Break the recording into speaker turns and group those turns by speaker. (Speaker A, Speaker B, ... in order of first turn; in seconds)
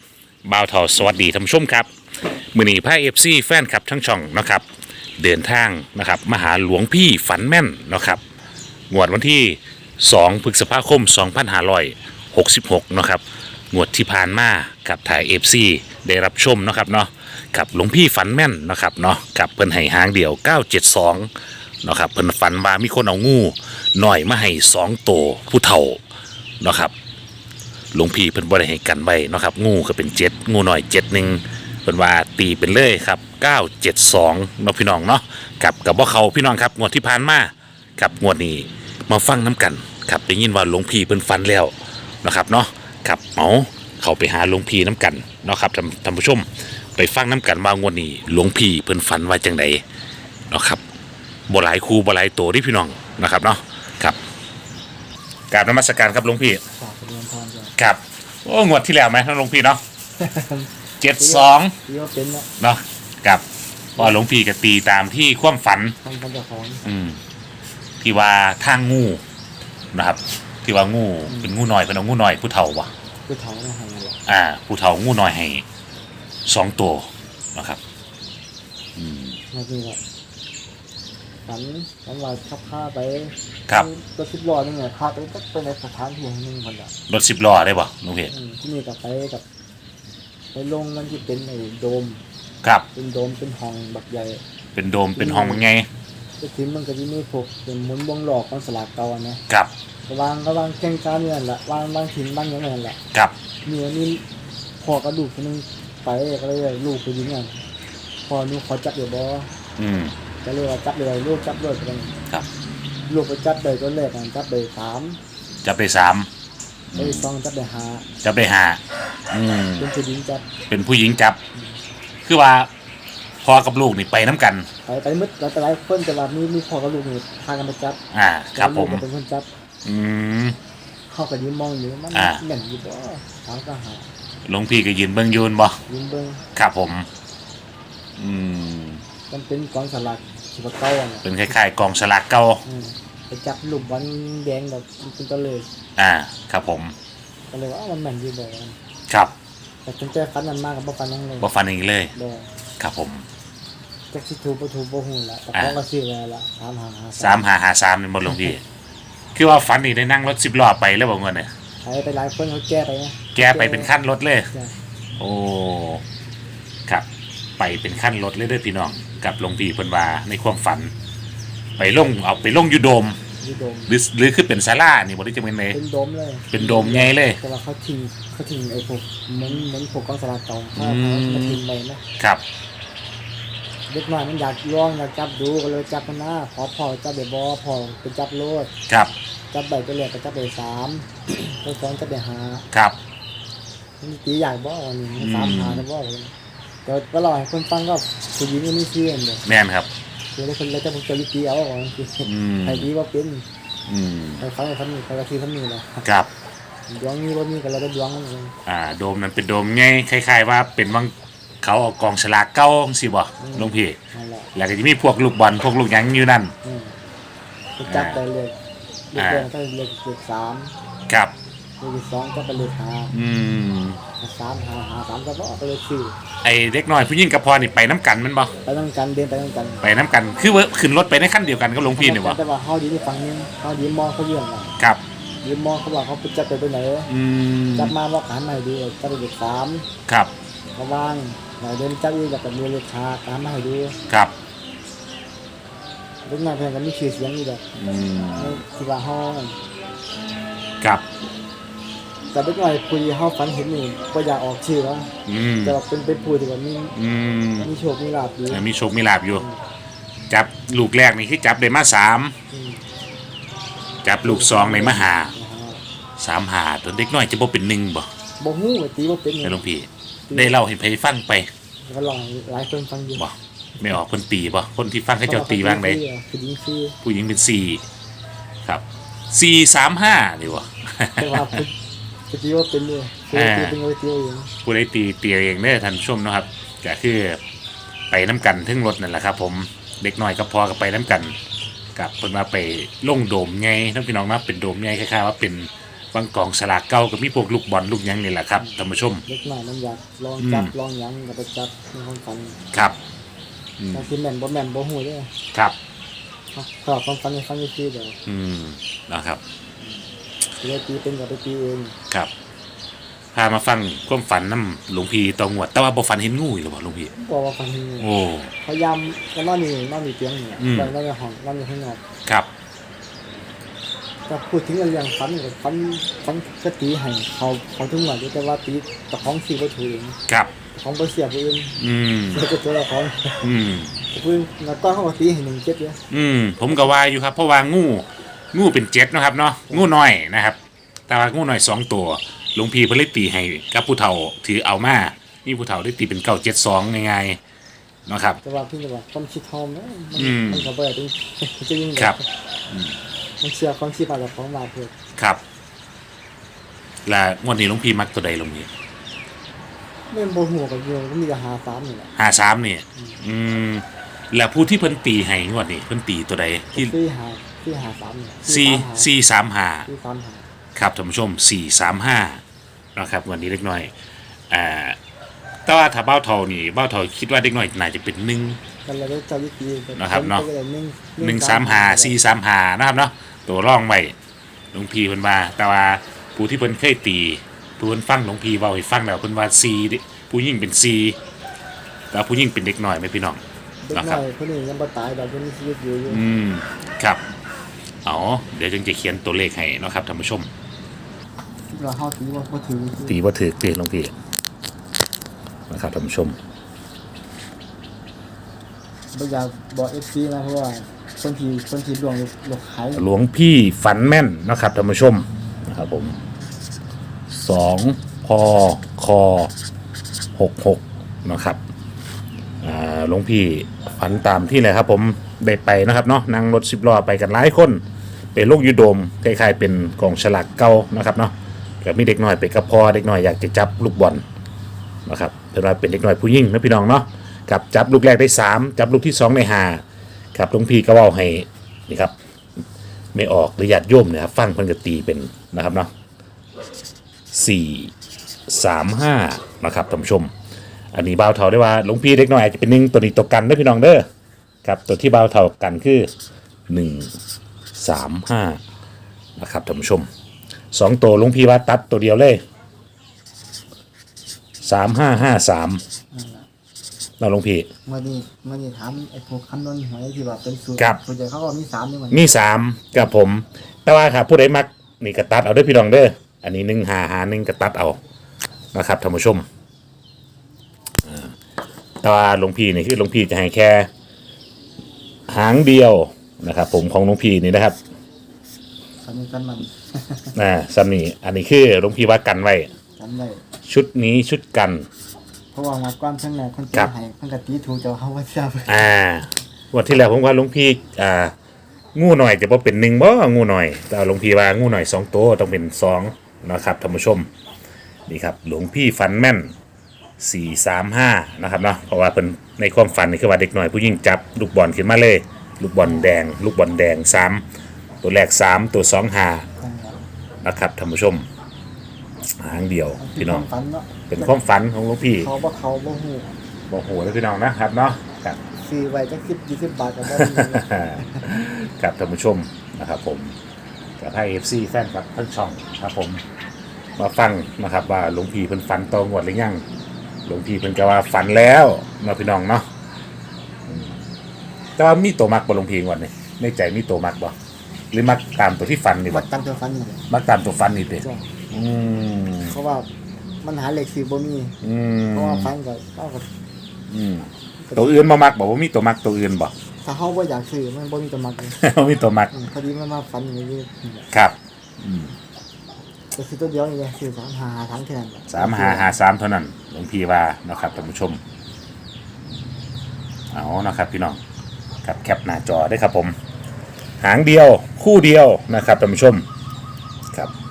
Speaker A: 0.4-4.6, 5.2-8.2, 8.9-13.2, 13.7-21.3, 21.8-26.0, 26.6-26.9, 27.9-49.8, 50.5-50.8, 51.5-54.2, 55.5-56.6, 57.8-59.8, 61.0-61.8, 62.6-63.4, 64.0-66.0, 66.8-67.2, 68.0-69.2, 69.9-72.9, 74.2-75.6, 76.5-77.8, 79.0-79.4, 87.1-88.3, 94.7-95.9, 109.8-110.1, 115.6-116.3, 116.9-117.3, 118.2-119.9, 120.7-121.4, 122.2-122.7, 123.4-124.7, 128.1-129.0, 129.8-130.6, 132.1-132.4, 134.4-135.8, 136.5-137.1, 138.2-139.0, 141.2-142.6, 146.0-146.9, 151.4-152.1, 152.8-153.2, 157.2-158.6, 159.3-161.5, 163.3-164.5, 165.2-166.0, 167.6-170.9, 171.8-173.2, 173.9-175.8, 176.5-177.4, 180.8-181.6, 182.2-182.4, 192.7-193.0, 195.2-195.8, 199.4-199.9, 202.2-202.9, 203.9-204.4, 206.0-206.3, 208.7-214.0, 214.5-216.5, 217.9-218.2, 219.2-219.5, 223.1-224.0, 226.4-228.5, 229.8-232.4, 237.1-237.9, 240.1-240.3, 244.1-244.3, 247.8-248.6, 255.2-255.8, 256.9-257.7, 258.5-259.4, 260.3-262.3, 264.0-265.3, 266.2-268.1, 269.4-271.5, 273.2-276.0, 277.0-277.8, 278.6-281.6, 283.3-283.8, 284.6-287.4, 288.1-291.4, 291.9-299.2, 300.4-300.7, 303.8-304.1, 308.2-309.4, 313.3-317.1, 318.0-318.5, 320.6-320.9, 331.8-332.4, 333.4-334.0, 336.1-347.4, 348.1-348.4, 350.1-350.7, 357.0-358.7, 362.1-366.9, 368.4-369.9, 370.7-372.4, 372.9-373.9, 374.5-375.0, 375.6-378.6, 379.9-380.4, 381.2-384.1, 384.7-391.2, 392.1-393.4, 393.9-394.2, 396.1-397.2, 398.0-400.5, 403.1-404.1, 405.7-406.4, 412.9-416.2, 417.3-419.5, 420.3-421.6, 422.6-427.8, 428.3-434.2, 435.1-439.8, 440.3-442.1, 443.1-445.9, 447.3-447.9, 448.5-450.3, 450.9-454.1, 454.6-456.1, 456.7-457.1, 457.7-458.6, 459.4-460.1, 460.7-462.4, 464.6-465.8, 467.2-467.7, 472.1-478.0, 478.7-479.4, 481.0-481.3, 482.0-483.9, 485.3-487.8, 490.3-492.7, 493.6-494.9, 498.7-501.3, 501.9-507.3, 508.1-509.5, 510.2-517.4, 518.0-519.5, 520.4-521.2, 522.4-523.4, 524.1-525.3, 526.7-528.4, 530.1-533.3, 534.0-536.2, 537.0-539.6, 540.2-542.7, 543.7-544.0, 544.8-547.3, 547.9-549.2, 550.1-552.5, 554.6-555.5, 556.9-559.5, 561.5-562.3, 564.1-565.1, 568.3-571.2, 573.3-574.2, 574.8-576.1, 577.0-579.2
Speaker B: 56.8-57.7, 60.2-62.5, 66.0-66.8, 71.2-71.5, 73.3-74.2, 79.5-80.0, 81.5-86.9, 88.3-89.4, 90.5-92.2, 92.9-94.4, 95.2-95.6, 96.4-99.4, 100.1-103.0, 103.6-104.2, 104.8-107.6, 108.3-109.5, 110.4-112.1, 113.1-115.2, 117.0-118.0, 119.8-120.4, 124.8-128.0, 128.5-129.5, 131.1-134.1, 135.9-136.4, 139.3-141.3, 142.6-145.7, 147.5-148.8, 149.8-151.5, 152.1-152.5, 154.1-157.4, 161.8-163.9, 173.4-173.9, 175.7-182.0, 183.9-188.7, 189.5-192.7, 194.0-196.3, 196.8-199.4, 200.3-203.4, 204.4-206.0, 206.9-208.5, 213.4-214.5, 216.6-216.9, 217.8-218.5, 219.1-220.7, 221.8-223.1, 224.2-226.2, 228.6-229.8, 231.8-234.8, 235.4-237.1, 237.7-239.9, 240.8-244.0, 246.2-247.6, 248.3-249.6, 252.3-255.1, 255.6-256.9, 257.6-258.6, 262.5-262.9, 264.2-265.8, 268.4-269.6, 270.3-270.6, 271.8-273.2, 275.2-277.0, 281.2-281.7, 282.3-284.5, 298.6-302.6, 303.9-305.3, 306.5-308.2, 310.6-311.9, 317.1-318.1, 318.6-322.0, 324.3-330.2, 330.7-333.5, 334.1-336.0, 348.4-352.2, 353.4-354.9, 360.1-362.1, 366.7-369.1, 369.9-370.4, 378.9-382.2, 393.8-396.2, 401.7-403.2, 409.1-413.0, 466.1-466.4, 467.9-472.4, 489.0-490.4, 493.0-493.4, 495.5-498.9, 515.8-516.1, 519.6-520.0, 523.0-524.3, 525.2-526.3, 528.6-531.2, 549.1-550.1, 551.0-551.3, 552.4-552.9, 553.4-554.6, 555.1-556.3, 557.6-558.0, 559.8-561.6, 562.3-564.1, 566.1-568.9